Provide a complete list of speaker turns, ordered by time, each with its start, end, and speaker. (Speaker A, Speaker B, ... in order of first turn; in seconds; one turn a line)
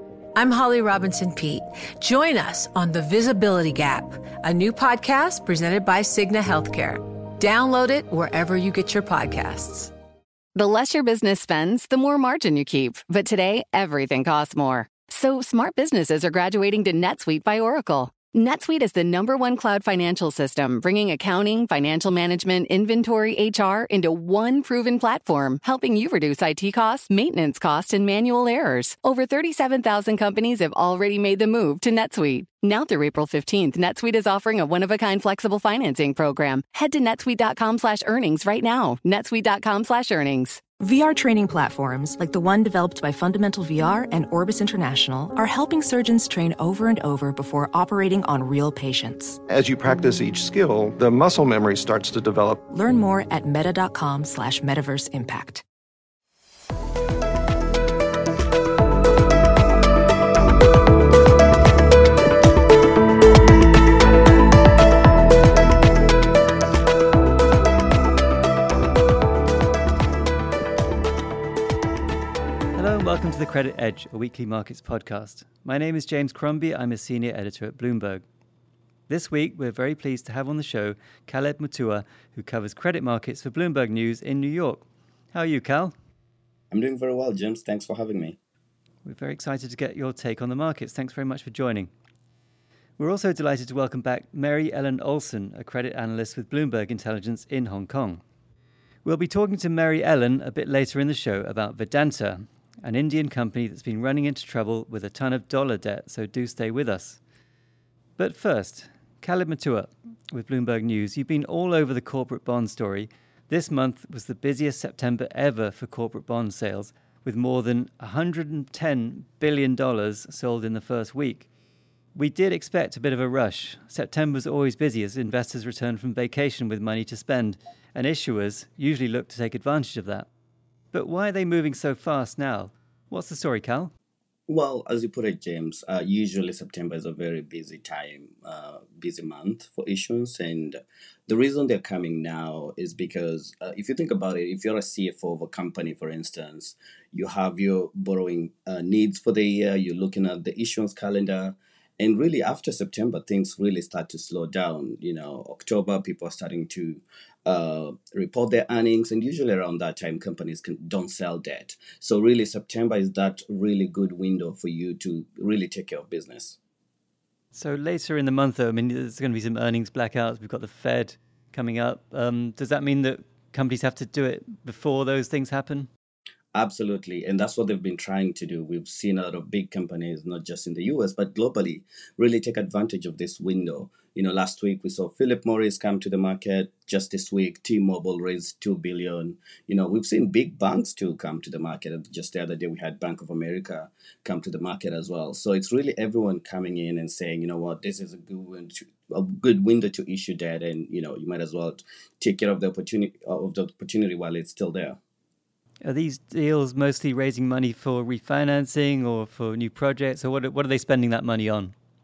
Speaker A: 0.3-9.9
Speaker B: 10.6-40.7
Speaker C: 40.8-49.4
Speaker D: 49.5-52.6
Speaker C: 52.7-55.6
Speaker E: 72.8-78.2
Speaker E: 79.1-86.0
Speaker F: 86.7-88.4
Speaker E: 89.0-91.9
Speaker E: 93.0-98.2
Speaker E: 99.0-107.2
Speaker E: 108.2-121.5
Speaker E: 122.2-130.3
Speaker E: 130.9-133.9
Speaker F: 134.5-166.6
Speaker E: 167.5-175.9
Speaker F: 176.5-205.0
Speaker E: 205.8-211.7